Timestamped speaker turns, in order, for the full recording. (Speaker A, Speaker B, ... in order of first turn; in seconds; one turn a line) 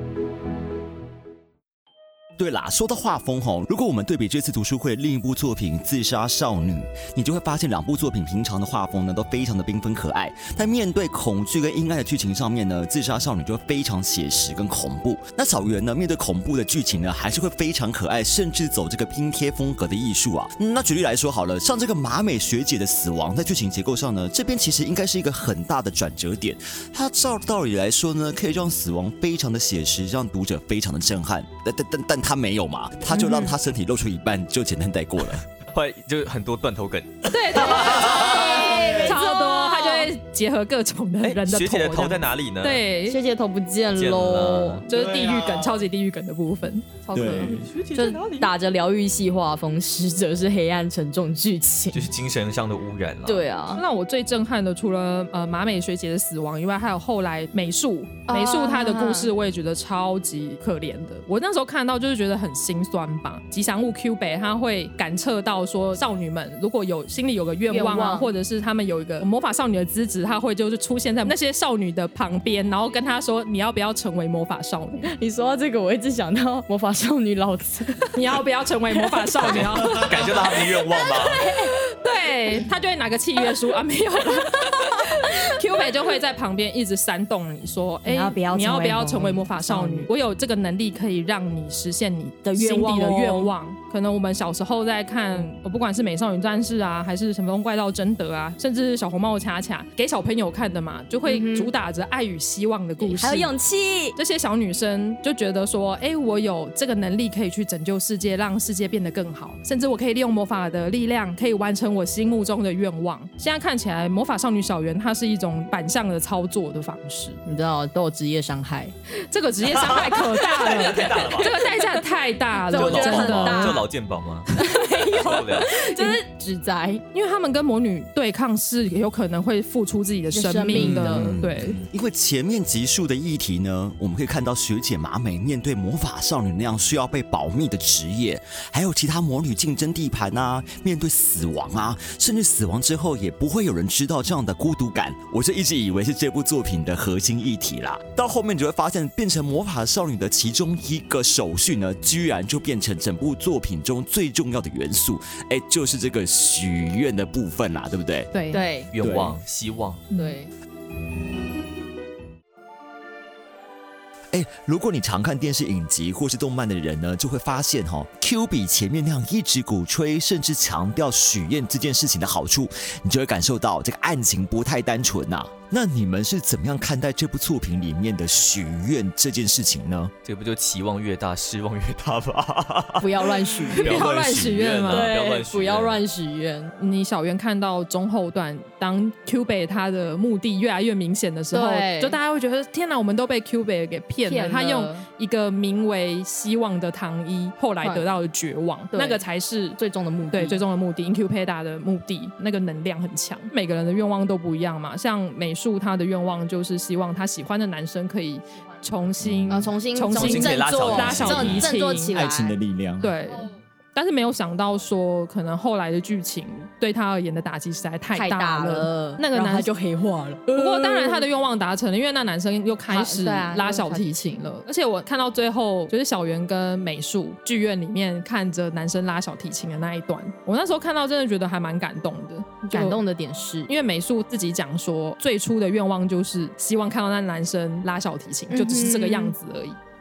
Speaker A: 2.4-35.4
Speaker B: 33.1-33.5
Speaker C: 35.7-38.5
Speaker D: 37.3-38.4
Speaker B: 37.5-40.1
Speaker E: 38.2-39.1
Speaker D: 38.9-43.2
Speaker C: 41.2-42.8
Speaker B: 43.0-44.9
Speaker C: 43.9-44.8
Speaker D: 44.9-47.6
Speaker E: 44.9-45.8
Speaker E: 47.1-47.7
Speaker C: 47.4-48.5
Speaker B: 47.9-52.1
Speaker C: 51.9-53.5
Speaker B: 53.2-53.8
Speaker D: 53.7-75.1
Speaker B: 58.3-59.3
Speaker B: 67.7-68.3
Speaker B: 75.0-78.2
Speaker D: 78.1-80.3
Speaker C: 79.4-81.5
Speaker B: 80.3-81.7
Speaker D: 81.9-103.5
Speaker B: 84.3-84.8
Speaker B: 88.0-90.1
Speaker B: 92.4-93.5
Speaker B: 101.2-101.7
Speaker B: 103.0-104.2
Speaker D: 104.2-117.4
Speaker B: 117.4-118.9
Speaker D: 119.3-123.8
Speaker C: 119.9-121.5
Speaker B: 121.3-122.0
Speaker B: 122.6-123.9
Speaker C: 122.7-124.6
Speaker B: 124.5-127.0
Speaker D: 124.6-125.1
Speaker C: 125.1-125.8
Speaker D: 127.1-131.8
Speaker B: 130.3-131.4
Speaker A: 130.7-158.3
Speaker D: 158.3-158.6
Speaker B: 158.5-158.9
Speaker C: 158.9-160.0
Speaker E: 159.0-159.4
Speaker B: 160.1-160.5
Speaker A: 164.3-180.1
Speaker C: 180.2-186.0
Speaker B: 183.0-184.1
Speaker D: 183.7-185.1
Speaker B: 184.9-186.7
Speaker D: 186.8-199.8
Speaker B: 191.5-192.2
Speaker B: 194.2-195.0
Speaker B: 197.8-198.1
Speaker B: 198.9-199.2
Speaker B: 199.8-200.6
Speaker D: 200.3-212.2
Speaker B: 209.5-212.6
Speaker C: 210.1-211.7
Speaker E: 212.1-213.1
Speaker D: 213.0-219.7
Speaker B: 218.1-221.2
Speaker D: 220.5-233.0
Speaker B: 222.9-224.4
Speaker B: 232.6-233.7
Speaker D: 233.7-239.8
Speaker B: 238.5-239.3